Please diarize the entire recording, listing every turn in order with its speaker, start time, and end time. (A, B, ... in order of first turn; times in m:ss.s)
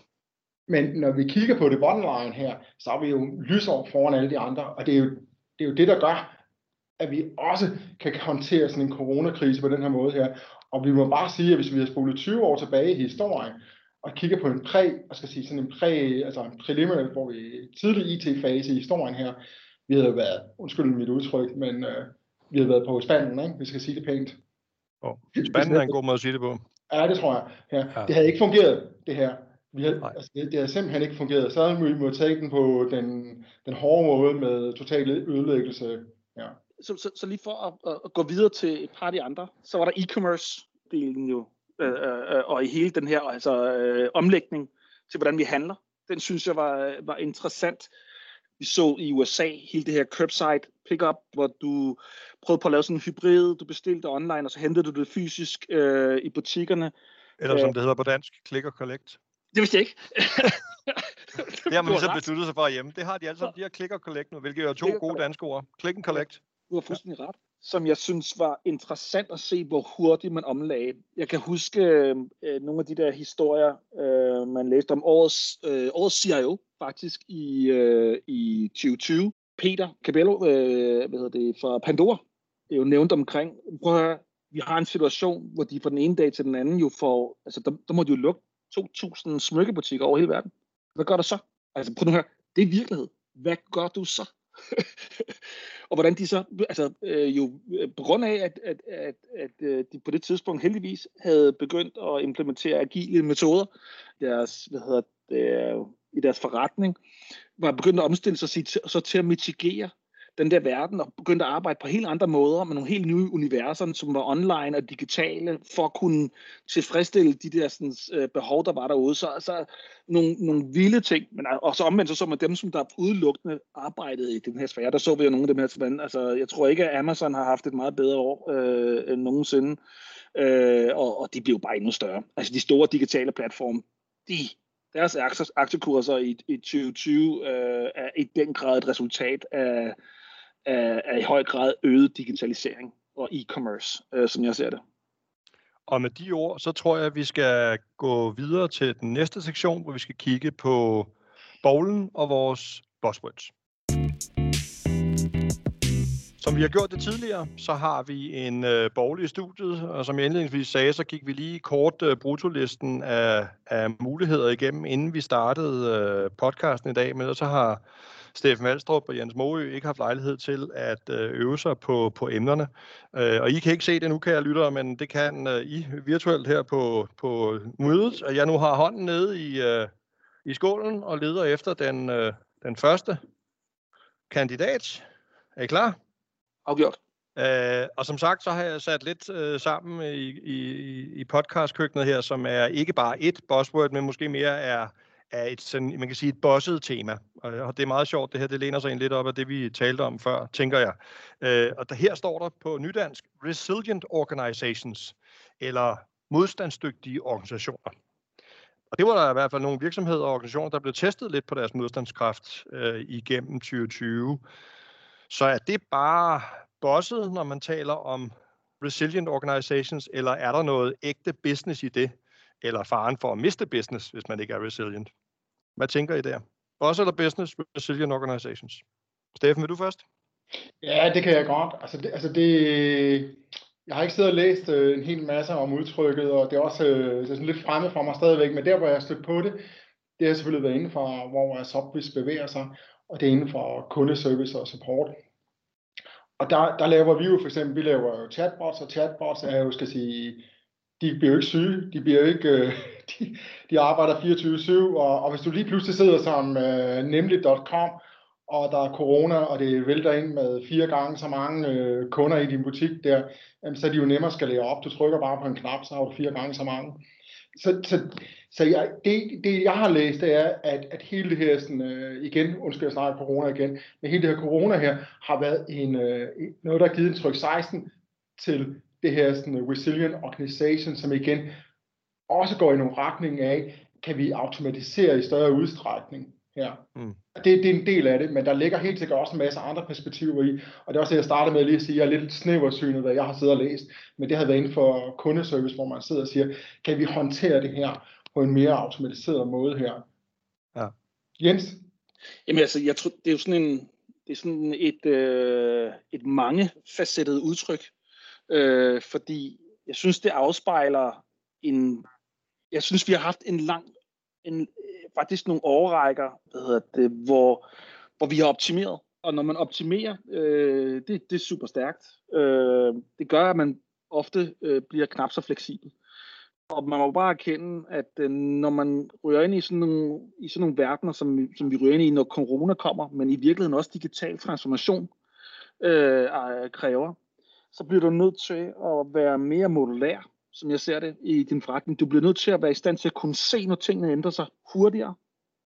0:00.7-0:06.4 A
0:07.0-0:24.4 A
0:25.0-0:26.6 B
0:25.4-0:26.0 A
0:26.9-0:36.6 A
0:36.8-0:47.9 C
0:48.6-0:56.9 C
0:57.4-0:59.2 B
0:57.5-0:57.7 C
0:59.5-1:02.2 C
1:01.7-1:06.4 B
1:04.8-1:05.2 C
1:06.1-1:35.4 C
1:35.9-1:47.0 C
1:47.6-2:09.8 C
2:10.4-2:20.0 C
2:20.7-2:24.8 C
2:25.9-2:31.1 B
2:31.6-2:33.5 B
2:36.4-2:47.8 B
2:48.3-2:59.9 B
3:00.4-3:03.2 B
3:04.3-3:05.0 B
3:05.6-3:06.0 B
3:06.7-3:07.0 C
3:07.4-3:27.9 B
3:28.9-3:34.4 B
3:35.3-3:45.1 B
3:45.8-3:48.8 B
3:49.4-3:50.0 B
3:50.8-3:59.6 A
4:00.2-4:05.2 A
4:06.4-4:10.4 A
4:11.0-4:41.5 A
4:42.3-4:46.8 A
4:47.4-5:00.1 A
5:01.4-5:01.8 A
5:02.5-5:07.9 C
5:08.5-5:12.1 C
5:12.7-5:13.9 C
5:14.4-5:17.6 C
5:18.2-5:25.9 C
5:26.7-5:35.1 C
5:35.8-5:37.2 C
5:37.7-5:45.2 C